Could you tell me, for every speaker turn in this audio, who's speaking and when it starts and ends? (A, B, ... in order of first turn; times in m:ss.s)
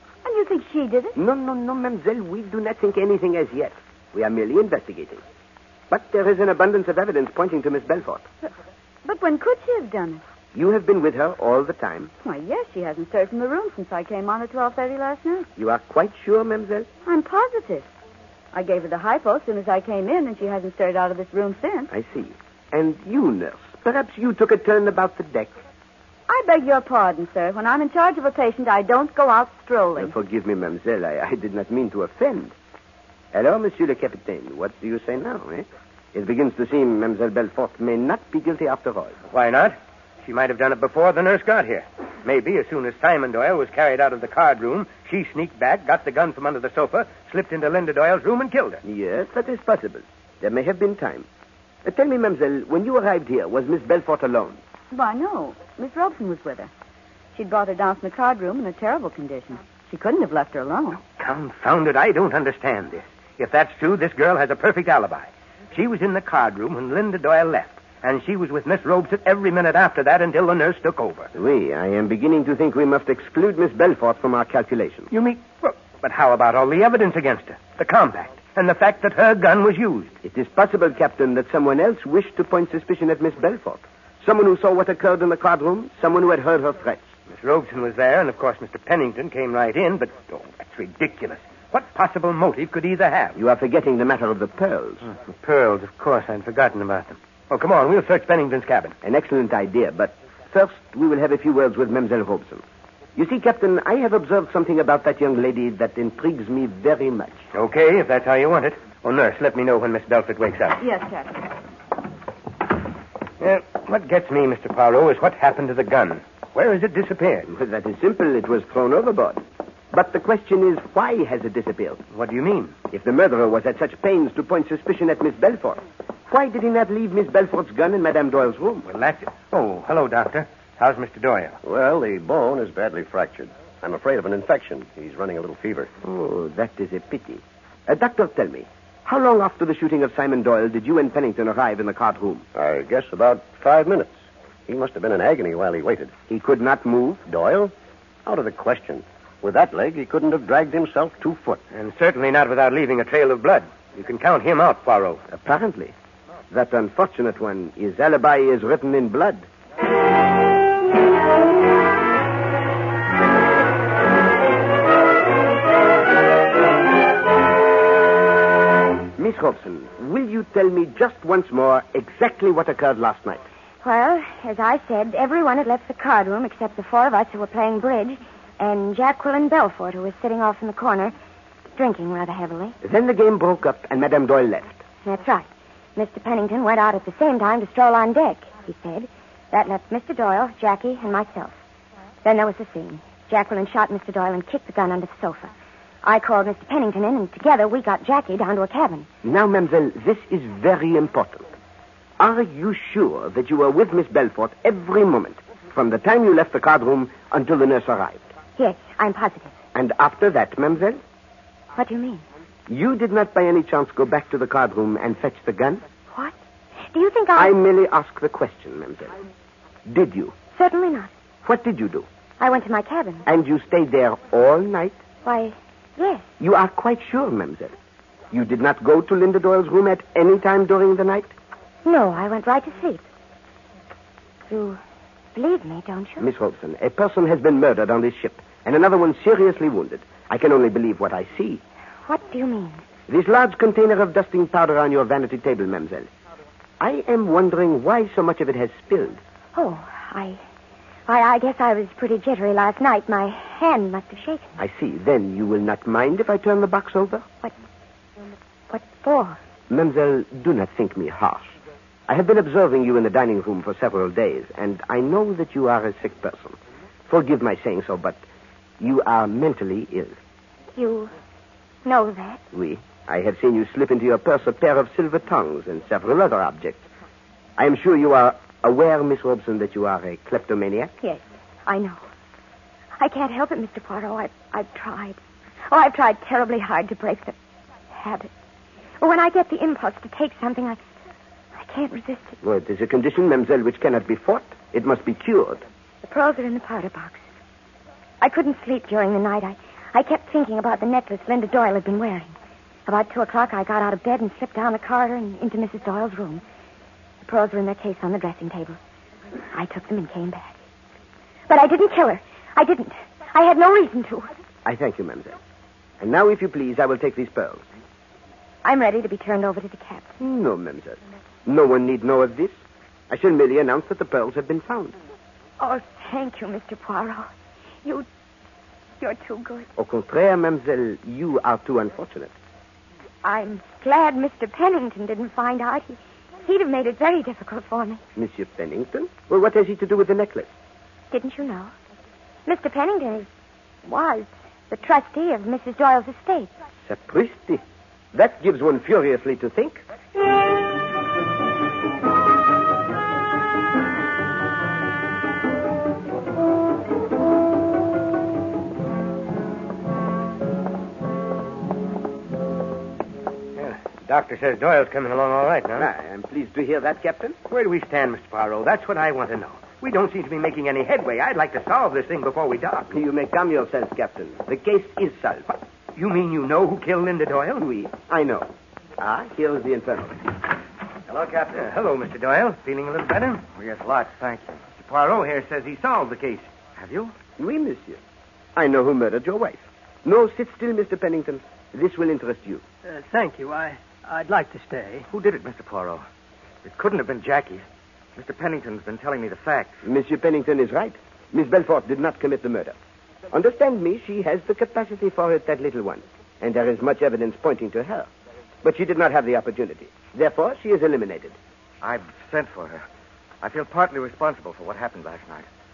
0:00.2-0:01.2 A
0:01.2-0:05.2 B
0:05.9-0:08.3 B
0:09.0-0:10.2 A
0:10.5-0:12.1 B
0:12.2-0:15.5 A
0:15.6-0:16.9 B
0:17.0-0:17.9 A
0:18.5-0:21.9 A
0:21.9-0:25.6 B
0:26.3-0:30.1 A
0:30.0-0:32.5 B
0:33.3-0:39.2 B
0:39.3-0:48.8 C
0:48.8-0:51.3 B
0:51.8-0:54.6 B
0:54.9-0:56.7 A
0:57.3-1:01.0 A
1:01.2-1:11.3 C
1:11.4-1:15.1 B
1:15.1-1:20.2 C
1:20.2-1:27.1 B
1:27.3-1:33.4 C
1:33.4-1:35.1 B
1:35.1-1:39.0 C
1:39.0-1:42.6 B
1:43.2-1:47.4 B
1:47.5-1:50.8 C
1:50.8-1:51.5 A
1:53.4-1:57.5 C
1:57.5-2:02.0 B
2:02.1-2:02.8 C
2:02.9-2:08.9 B
2:08.9-2:11.6 C
2:11.6-2:15.9 D
2:16.0-2:22.4 B
2:22.6-2:24.2 D
2:24.7-2:26.2 D
2:26.3-2:27.2 B
2:27.3-2:27.7 D
2:28.3-2:31.6 D
2:31.7-2:35.2 C
2:35.3-2:35.9 B
2:36.5-2:39.5 B
2:49.2-2:53.5 B
2:53.8-3:01.1 E
3:01.7-3:02.8 E
3:02.8-3:04.8 B
3:05.0-3:11.6 E
3:12.2-3:15.5 E
3:16.0-3:19.1 E
3:19.2-3:21.5 B
3:22.2-3:28.3 B
3:28.6-3:29.6 E
3:29.7-3:31.0 B
3:31.8-3:32.2 E
3:32.7-3:35.8 B
3:36.9-3:37.5 E
3:37.4-3:39.2 B
3:39.9-3:40.4 B
3:40.5-3:41.1 E
3:41.4-3:42.1 B
3:42.4-3:43.3 E
3:43.3-3:45.0 B
3:45.2-3:46.3 E
3:46.4-3:47.8 B
3:48.3-3:51.3 B
3:51.8-3:53.1 E
3:54.5-3:54.8 E
3:55.3-3:56.3 E
3:56.2-4:01.6 B
4:02.1-4:02.9 E
4:03.1-4:06.1 B
4:06.8-4:09.2 B
4:09.6-4:10.4 E
4:11.1-4:14.6 E
4:14.6-4:17.3 B
4:18.7-4:19.4 E
4:19.7-4:21.6 B
4:22.1-4:28.2 B
4:28.8-4:30.2 B
4:30.8-4:31.1 E
4:31.8-4:32.4 E
4:32.5-4:36.9 B
4:37.6-4:40.9 B
4:41.0-4:42.0 E
4:43.0-4:47.4 E
4:47.9-4:48.3 E
4:49.0-4:50.8 E
4:51.6-4:52.4 E
4:52.4-4:55.6 B
4:56.0-4:57.2 E
4:58.2-5:02.4 E
5:02.9-5:06.4 E
5:07.2-5:08.8 E
5:09.5-5:10.6 E
5:11.5-5:14.3 E
5:14.6-5:15.4 B
5:16.0-5:17.6 B
5:18.6-5:20.1 E
5:20.2-5:22.6 B
5:23.1-5:25.0 B
5:25.6-5:27.3 E
5:29.0-5:29.7 E
5:29.8-5:32.3 B
5:33.2-5:38.0 E
5:38.2-5:40.5 B
5:41.1-5:41.7 E
5:42.5-5:43.3 E
5:43.8-5:46.5 E
5:46.8-5:47.6 B
5:48.1-5:49.8 B
6:03.6-6:05.9 C
6:05.8-6:07.4 B
6:07.5-6:13.0 C
6:12.9-6:15.6 B
6:16.0-6:17.7 C
6:17.6-6:20.2 B
6:21.1-6:23.4 C
6:23.5-6:24.6 F
6:24.7-6:26.5 C
6:26.8-6:27.1 F
6:27.4-6:28.0 B
6:28.6-6:32.6 B
6:32.8-6:35.1 G
6:35.1-6:36.0 F
6:36.6-6:37.6 F
6:38.2-6:39.8 F
6:39.8-6:42.8 B
6:43.3-6:48.1 B
6:48.6-6:51.4 B
6:51.8-6:52.8 F
6:53.4-6:55.5 F